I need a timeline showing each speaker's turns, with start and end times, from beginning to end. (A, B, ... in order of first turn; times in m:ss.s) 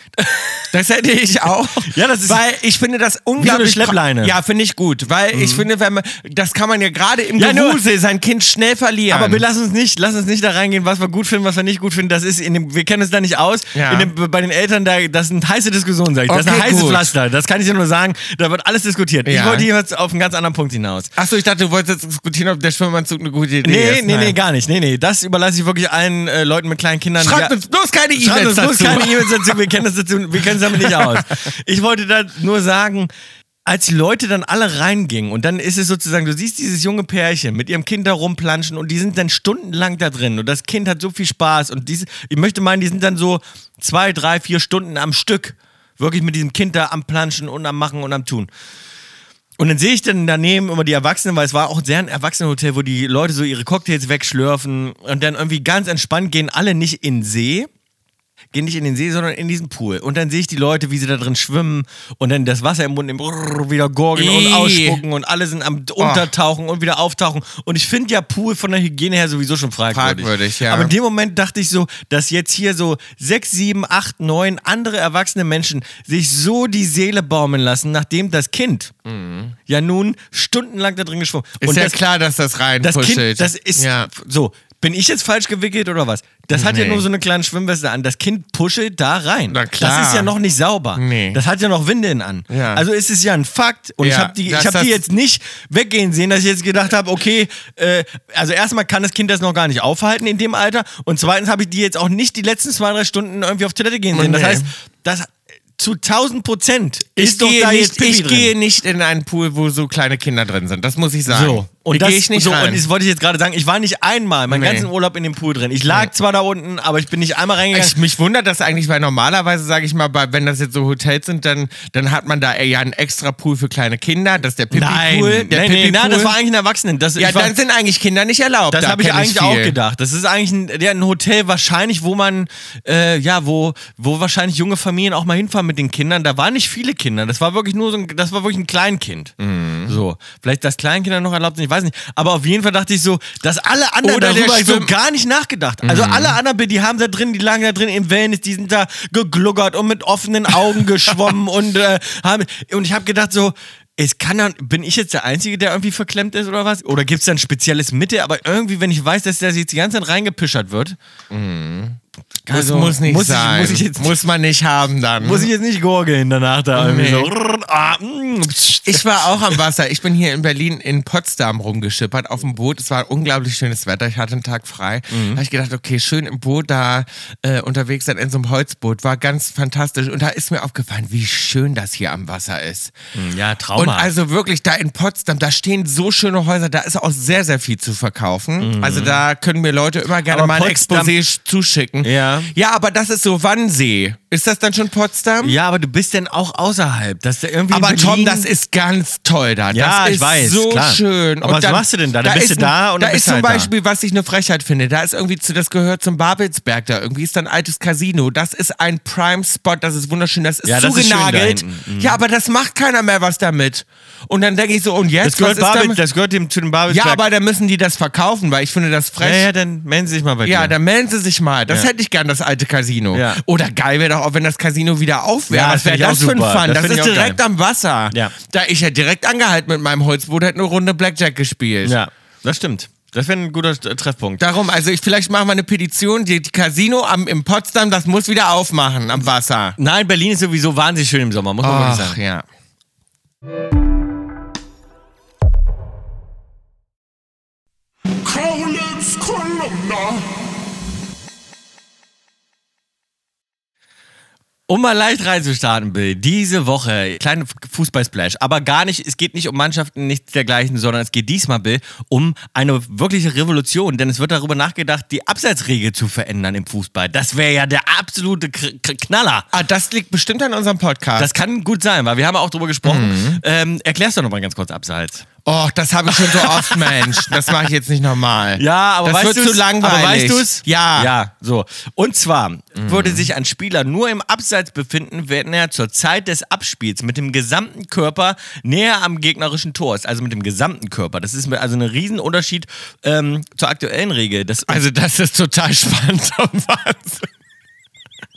0:00.2-0:00.7 A
0:00.7-0:09.4 B
0:01.8-0:02.4 A
0:03.4-0:04.4 A
0:05.3-0:05.7 A
0:07.4-0:07.8 A
0:09.1-0:21.1 A
0:13.7-0:14.1 B
0:16.3-0:17.1 B
0:19.2-0:19.7 B
0:21.2-0:24.4 B
0:23.6-0:27.5 A
0:27.2-0:29.6 B
0:28.2-0:33.1 A
0:30.5-0:31.2 B
0:33.6-0:48.5 A
0:49.6-0:57.7 A
0:58.5-1:18.9 A
1:04.2-1:05.0 B
1:06.0-1:06.3 B
1:09.9-1:10.9 B
1:19.0-1:19.6 B
1:19.7-1:22.0 A
1:21.6-1:24.1 B
1:22.8-1:48.5 A
1:26.5-1:27.1 B
1:29.5-1:30.3 B
1:31.0-1:31.4 B
1:32.5-1:32.8 B
1:34.0-1:35.0 B
1:44.1-1:44.7 B
1:47.2-1:52.8 B
1:51.3-1:58.0 A
1:54.5-1:54.9 B
1:57.7-2:06.4 B
2:04.7-2:07.5 A
2:07.2-2:09.8 B
2:08.7-2:19.3 A
2:19.4-2:20.0 B
2:19.9-2:41.0 A
2:24.0-2:24.9 B
2:25.8-2:26.4 B
2:41.3-2:42.0 B
2:42.5-2:44.2 A
2:42.5-2:45.5 B
2:45.2-2:49.6 A
2:46.8-2:47.3 B
2:48.9-3:03.0 B
2:55.1-2:55.4 A
3:03.1-3:04.1 A
3:03.8-3:15.6 B
3:08.6-3:09.2 A
3:10.3-3:11.1 A
3:12.0-3:12.5 A
3:15.4-3:18.5 A
3:17.7-3:36.0 B
3:19.7-3:23.7 A
3:30.6-3:32.2 A
3:35.2-3:37.2 A
3:36.9-3:39.5 B
3:39.2-3:40.8 A
3:40.4-3:52.0 B
3:43.1-3:43.4 A
3:45.5-3:47.4 A
3:51.8-3:54.4 A
3:54.4-3:59.8 B
3:59.8-4:02.2 A
4:01.6-4:02.4 B
4:08.2-4:10.3 C
4:14.7-4:29.5 A
4:29.5-4:31.3 B
4:31.2-4:35.3 A
4:32.8-4:33.4 B
4:35.4-4:41.1 B
4:36.1-4:37.6 A
4:38.6-4:54.8 A
4:42.8-4:43.3 B
4:54.7-4:57.3 B